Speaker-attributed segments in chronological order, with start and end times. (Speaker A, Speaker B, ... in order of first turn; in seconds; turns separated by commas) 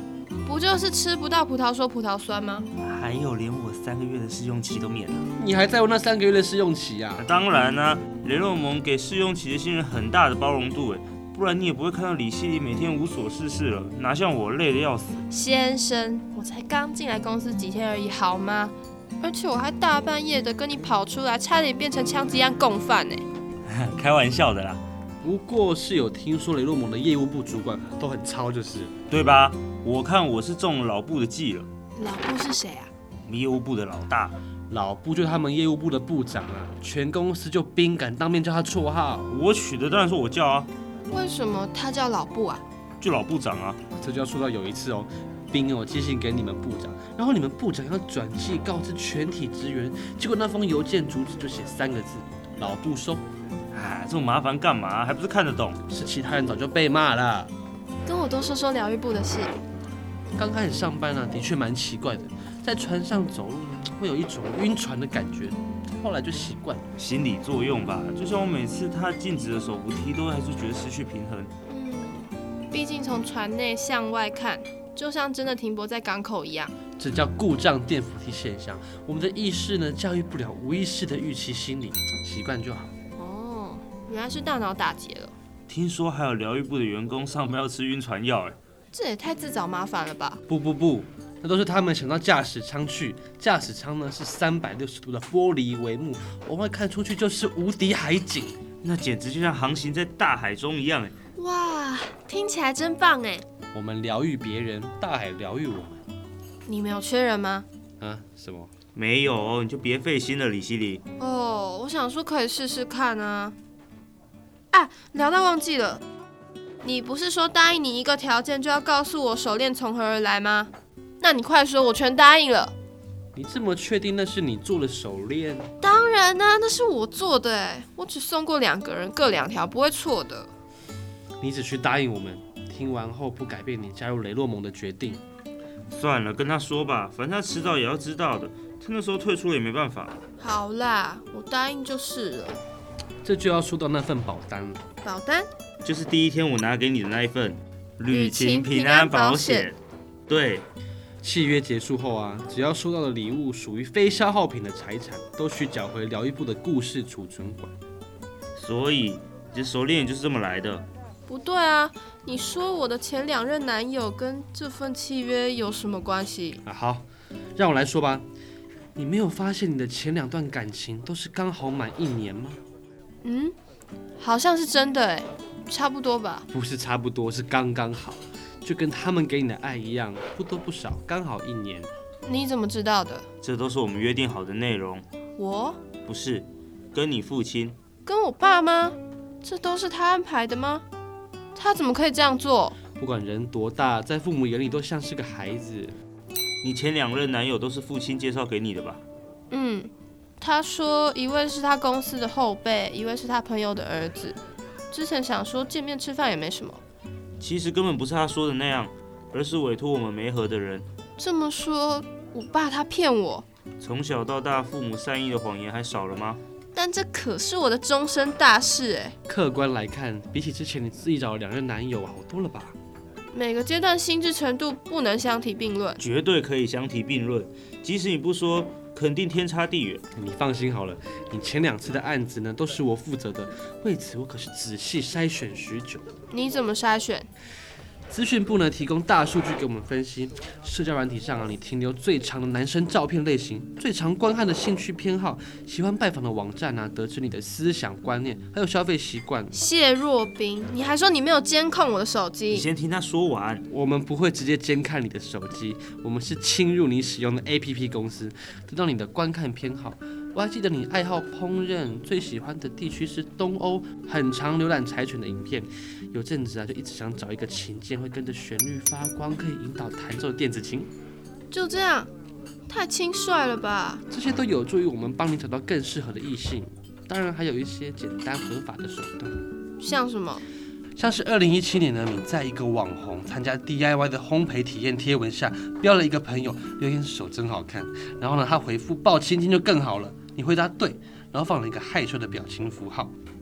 Speaker A: 0.4-2.7, Speaker B: 2.8-5.3, Speaker C: 5.3-7.3, Speaker B: 7.2-15.2, Speaker A: 15.3-23.2, Speaker B: 23.7-24.8, Speaker C: 25.2-28.9, Speaker B: 29.1-31.7, Speaker A: 31.9-32.9, Speaker B: 33.2-34.3, Speaker C: 34.7-39.3, Speaker B: 39.3-40.7, Speaker A: 41.1-42.6, Speaker B: 43.0-43.8, Speaker C: 43.9-53.2, Speaker B: 53.7-55.8, Speaker C: 55.9-57.5, Speaker A: 58.0-59.6, Speaker C: 60.3-66.9, Speaker B: 67.0-71.5, Speaker A: 71.7-76.7, Speaker C: 77.0-82.9, Speaker A: 83.2-85.3, Speaker B: 85.7-88.5, Speaker A: 88.9-90.4, Speaker C: 90.5-98.6, Speaker B: 98.8-101.1, Speaker A: 101.3-103.4, Speaker C: 103.7-106.0, Speaker A: 106.7-107.7, Speaker C: 108.0-108.7, Speaker B: 108.9-111.0, Speaker A: 111.2-113.5, Speaker A: 114.7-116.0, Speaker A: 116.8-122.7, Speaker C: 123.3-125.7, Speaker A: 125.8-130.5, Speaker C: 131.4-135.2, Speaker B: 135.9-140.2, Speaker A: 140.4-142.6, Speaker C: 143.2-144.8, Speaker A: 145.0-145.5, Speaker B: 145.8-150.7, Speaker A: 148.1-149.7, Speaker C: 151.2-157.7, Speaker B: 158.6-160.8, Speaker A: 161.2-166.6, Speaker C: 166.6-168.2, Speaker C: 168.9-172.6, Speaker A: 173.2-173.5, Speaker A: 174.2-176.5, Speaker C: 176.5-181.9, Speaker A: 182.2-183.2, Speaker B: 183.4-185.1, Speaker A: 185.4-185.8, Speaker B: 186.0-187.8, Speaker A: 188.0-190.8, Speaker A: 191.5-192.8, Speaker C: 193.0-196.0, Speaker B: 196.6-199.0, Speaker A: 199.5-204.3, Speaker A: 204.9-206.8, Speaker B: 207.4-210.9, Speaker A: 211.2-213.4, Speaker B: 213.8-216.4, Speaker A: 216.7-219.2, Speaker C: 219.2-222.8, Speaker A: 223.3-226.0, Speaker B: 226.0-230.0, Speaker C: 230.2-236.0, Speaker A: 236.3-237.3, Speaker C: 238.1-249.6, Speaker A: 249.5-252.7, Speaker B: 252.5-253.6, Speaker C: 253.7-270.9, Speaker A: 271.5-272.1, Speaker A: 272.7-274.0, Speaker C: 274.1-279.4, Speaker A: 279.8-280.4, Speaker C: 280.9-293.1